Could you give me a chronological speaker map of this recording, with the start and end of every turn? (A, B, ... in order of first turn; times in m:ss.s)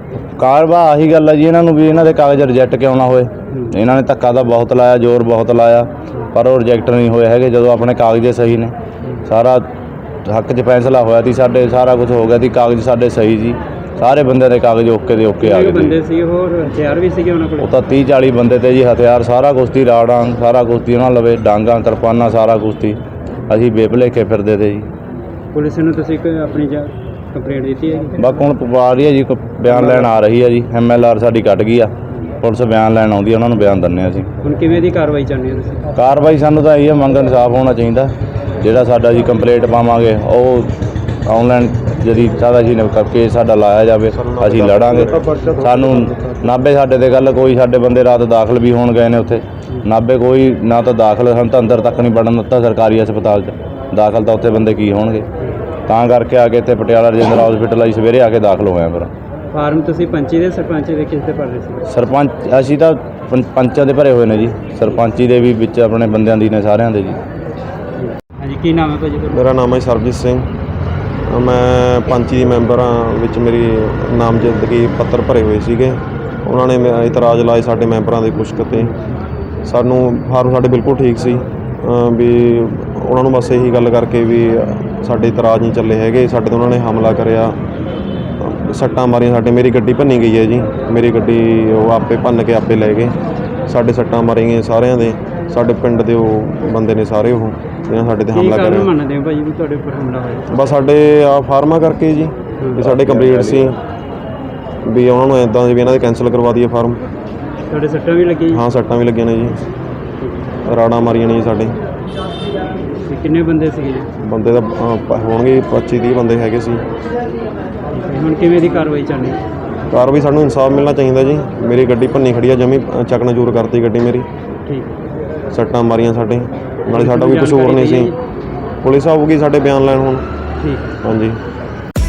0:00.4-0:08.7 A
0:09.3-0:09.7 A
0:10.2-0:16.0 A
0:15.4-0:17.7 B
0:17.6-0:24.9 A
0:25.5-0:28.4 B
0:28.2-0:34.3 A
0:29.7-0:30.1 B
0:34.4-0:35.9 B
0:36.0-0:40.7 A
0:41.3-0:55.3 A
0:44.1-0:46.1 C
0:55.9-0:59.1 A
0:59.5-1:01.9 B
1:01.9-1:07.2 A
1:08.0-1:09.4 B
1:09.3-1:10.5 C
1:11.3-1:18.9 C
1:19.6-1:27.6 C
1:28.4-1:33.2 C
1:33.7-1:38.9 C
1:38.3-1:40.5 B
1:40.5-1:43.8 C
1:42.6-1:42.9 B
1:44.9-1:47.0 C
1:47.7-1:48.6 B
1:48.5-1:49.6 C
1:50.6-1:51.8 C
1:53.0-1:54.1 B
1:54.2-1:56.8 C
1:57.9-1:59.4 B
1:59.9-2:04.3 C
2:04.7-2:04.9 B
2:05.5-2:08.1 C
2:06.9-2:08.2 B
2:08.8-2:10.3 C
2:10.6-2:10.9 B
2:11.0-2:11.4 C